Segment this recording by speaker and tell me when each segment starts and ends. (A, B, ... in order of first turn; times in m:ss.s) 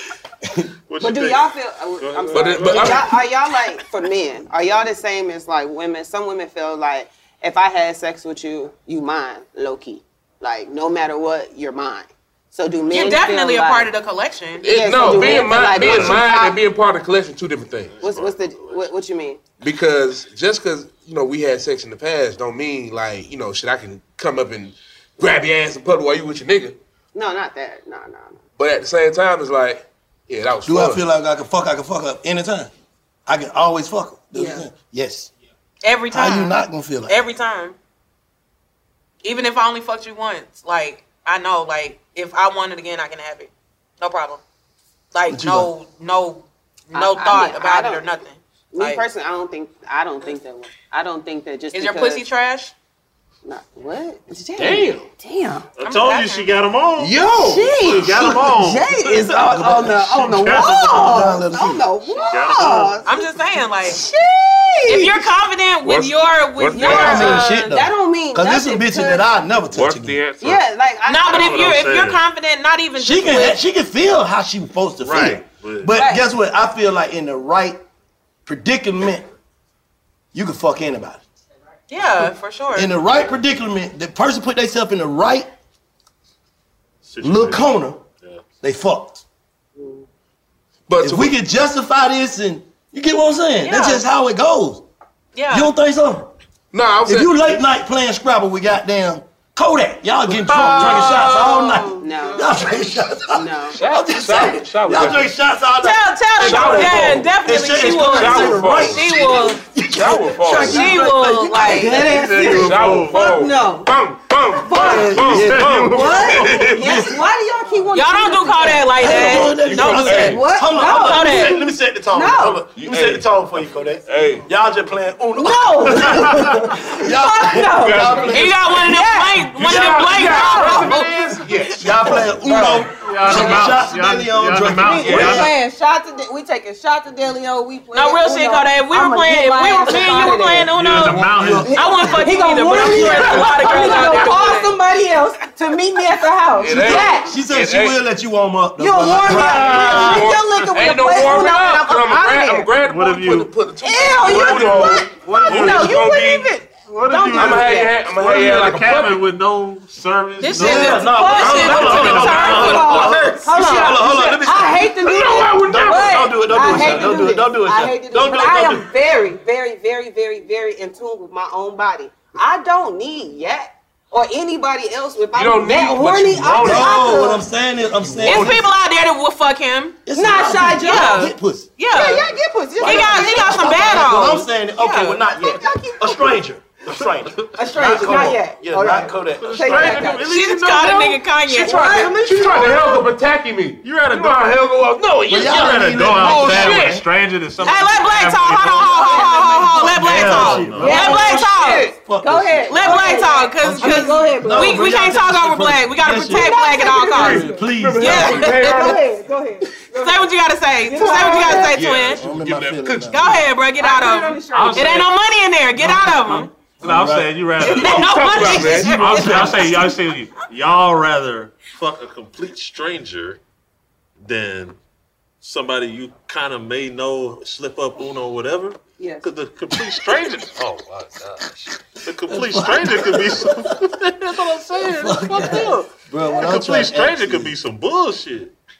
0:00.9-0:03.1 A
0:01.0-0:13.9 B
0:02.3-0:03.1 C
0:12.9-0:15.5 D
0:14.6-0:18.0 C
0:14.7-0:16.6 B
0:15.6-0:16.3 A
0:18.0-0:18.7 A
0:18.0-0:19.4 B
0:19.6-0:26.8 C
0:27.1-0:28.4 B
0:28.6-0:31.0 C
0:30.6-0:32.7 E
0:33.3-0:35.3 E
0:34.3-0:34.7 B
0:35.8-0:37.8 D
0:36.1-0:37.2 E
0:39.2-0:43.5 D
0:44.0-0:44.4 D
0:45.1-0:49.0 D
0:45.3-0:45.7 E
0:46.9-0:48.0 B
0:48.7-0:52.2 B
0:51.7-0:52.7 D
0:53.4-0:55.7 B
0:54.6-0:55.0 C
0:55.8-1:01.3 A
0:55.8-0:56.5 D
0:57.0-0:57.7 C
0:57.4-1:03.2 B
0:59.3-1:01.9 E
1:02.2-1:03.0 A
1:03.0-1:04.0 D
1:03.8-1:05.2 B
1:04.9-1:07.7 D
1:05.8-1:07.4 C
1:06.7-1:09.2 B
1:06.8-1:10.2 E
1:09.7-1:10.6 C
1:10.4-1:11.8 B
1:11.0-1:13.6 D
1:11.3-1:12.2 A
1:13.0-1:17.8 E
1:15.0-1:16.0 A
1:15.9-1:16.2 B
1:18.4-1:19.3 E
1:20.3-1:21.2 E
1:21.9-1:22.9 D
1:22.7-1:25.5 E
1:27.0-1:27.7 A
1:27.2-1:28.0 E
1:28.6-1:29.2 E
1:29.8-1:30.0 B
1:30.9-1:31.3 C
1:31.0-1:34.8 E
1:33.6-1:34.0 D
1:35.3-1:35.7 D
1:35.5-1:36.3 E
1:36.7-1:37.5 C
1:37.0-1:53.0 E
1:40.4-1:41.4 C
1:40.6-1:41.9 D
1:42.0-1:42.5 B
1:43.3-1:43.8 B
1:43.8-1:45.3 C
1:45.8-1:49.6 D
1:46.4-1:47.3 C
1:48.0-1:50.9 C
1:50.5-1:51.9 D
1:51.5-1:53.9 B
1:51.9-1:53.4 A
1:52.5-1:57.0 C
1:54.6-1:59.4 B
1:54.7-1:57.2 E
1:54.8-1:56.2 A
1:57.9-2:01.6 D
1:59.0-2:08.7 E
1:59.1-2:00.4 C
2:00.1-2:02.7 B
2:02.7-2:03.2 C
2:04.0-2:04.4 C
2:05.4-2:09.4 B
2:07.7-2:08.4 C
2:08.3-2:11.2 D
2:09.6-2:12.8 C
2:10.2-2:11.4 B
2:11.8-2:15.5 E
2:12.9-2:15.5 A
2:13.3-2:13.7 B
2:14.7-2:27.4 B
2:15.0-2:15.4 C
2:17.9-2:24.8 D
2:20.7-2:21.7 A
2:20.9-2:23.9 E
2:26.6-2:28.0 C
2:26.6-2:30.4 E
2:28.8-2:32.7 B
2:29.3-2:36.5 C
2:29.4-2:30.1 A
2:32.8-2:33.5 A
2:33.8-2:38.0 B
2:34.2-2:36.1 A
2:34.5-2:35.0 E
2:36.8-2:43.0 A
2:37.3-2:39.2 C
2:40.4-2:43.1 D
2:40.5-2:48.9 E
2:40.7-2:57.4 B
2:41.5-2:42.9 C
2:45.0-2:47.0 C
2:55.3-2:57.2 C
2:56.6-2:58.6 E
2:58.2-3:00.0 D
3:00.0-3:01.7 E
3:00.1-3:01.2 B
3:00.7-3:02.3 D
3:01.9-3:04.4 B
3:02.8-3:10.1 E
3:02.8-3:05.2 D
3:05.3-3:06.4 B
3:07.4-3:08.2 A
3:07.6-3:10.3 B
3:09.4-3:11.2 A
3:10.2-3:12.0 D
3:11.5-3:17.0 C
3:11.6-3:13.0 B
3:13.8-3:14.6 A
3:15.2-3:21.3 A
3:15.3-3:17.0 E
3:17.6-3:21.9 D
3:18.7-3:19.9 B
3:20.0-3:28.8 E
3:20.8-3:25.0 B
3:22.7-3:27.4 D
3:26.3-3:30.3 B
3:27.2-3:29.0 C
3:28.0-3:28.8 D
3:30.0-3:32.2 D
3:30.8-3:31.8 B
3:31.7-3:33.3 C
3:31.8-3:33.4 E
3:33.1-3:36.5 D
3:33.8-3:35.0 B
3:34.5-3:35.1 A
3:35.8-3:43.4 A
3:36.8-3:37.4 E
3:37.6-3:39.7 D
3:37.6-3:39.1 C
3:38.6-3:39.6 E
3:44.2-3:44.8 A
3:45.4-3:58.5 A
3:49.0-3:49.3 B
3:52.2-3:53.8 E
3:54.8-3:57.5 E